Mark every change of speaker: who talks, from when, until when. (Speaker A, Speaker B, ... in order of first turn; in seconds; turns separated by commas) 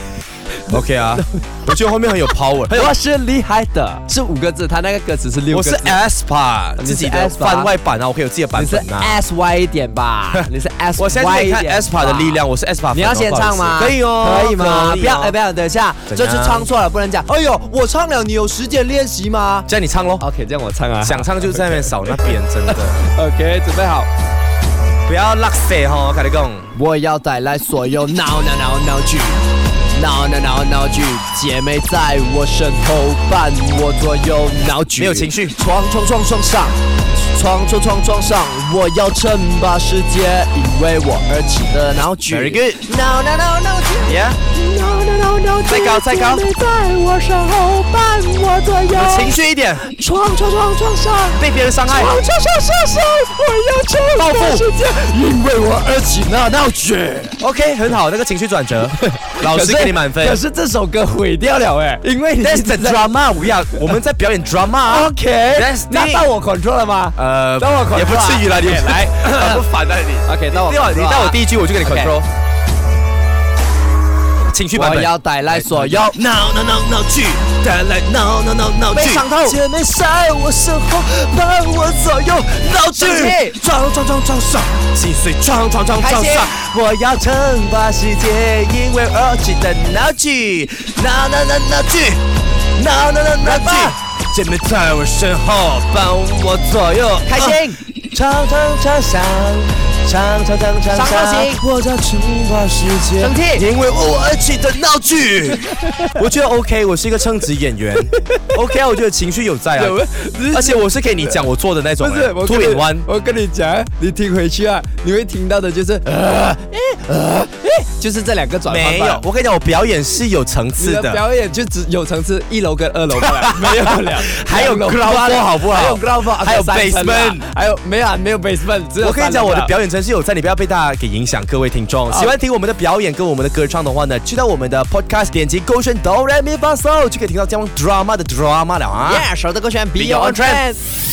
Speaker A: 0.7-2.9, Speaker B: 0.7-1.2, Speaker B: 2.7-6.0, Speaker A: 5.5-9.2, Speaker B: 6.8-7.7, Speaker B: 8.5-19.7, Speaker A: 10.9-15.3, Speaker A: 16.1-16.7, Speaker A: 19.7-20.2, Speaker B: 20.2-24.1, Speaker A: 21.0-23.0, Speaker A: 25.1-26.7, Speaker B: 26.7-36.8, Speaker A: 35.0-35.5, Speaker B: 37.3-57.4, Speaker A: 42.3-42.8, Speaker A: 44.0-44.4, Speaker A: 45.6-46.4, Speaker A: 48.9-49.8, Speaker A: 51.4-52.2, Speaker A: 54.1-54.6, Speaker A: 57.4-60.4, Speaker B: 59.0-63.1, Speaker A: 62.4-66.3, Speaker B: 64.8-69.6, Speaker A: 67.1-72.3, Speaker B: 70.2-72.1, Speaker A: 74.5-92.2, Speaker B: 74.7-76.2, Speaker B: 78.9-79.5, Speaker B: 82.9-83.5, Speaker B: 86.0-86.5, Speaker A: 92.7-113.0, Speaker B: 93.4-93.9, Speaker B: 97.2-97.8, Speaker B: 100.9-101.6, Speaker B: 103.2-103.6, Speaker B: 109.8-111.5, Speaker B: 112.0-119.2, Speaker A: 118.7-121.2, Speaker B: 120.8-129.7, Speaker A: 123.2-127.4, Speaker A: 129.0-139.3, Speaker B: 132.1-132.3, Speaker B: 139.0-140.8, Speaker A: 139.9-140.6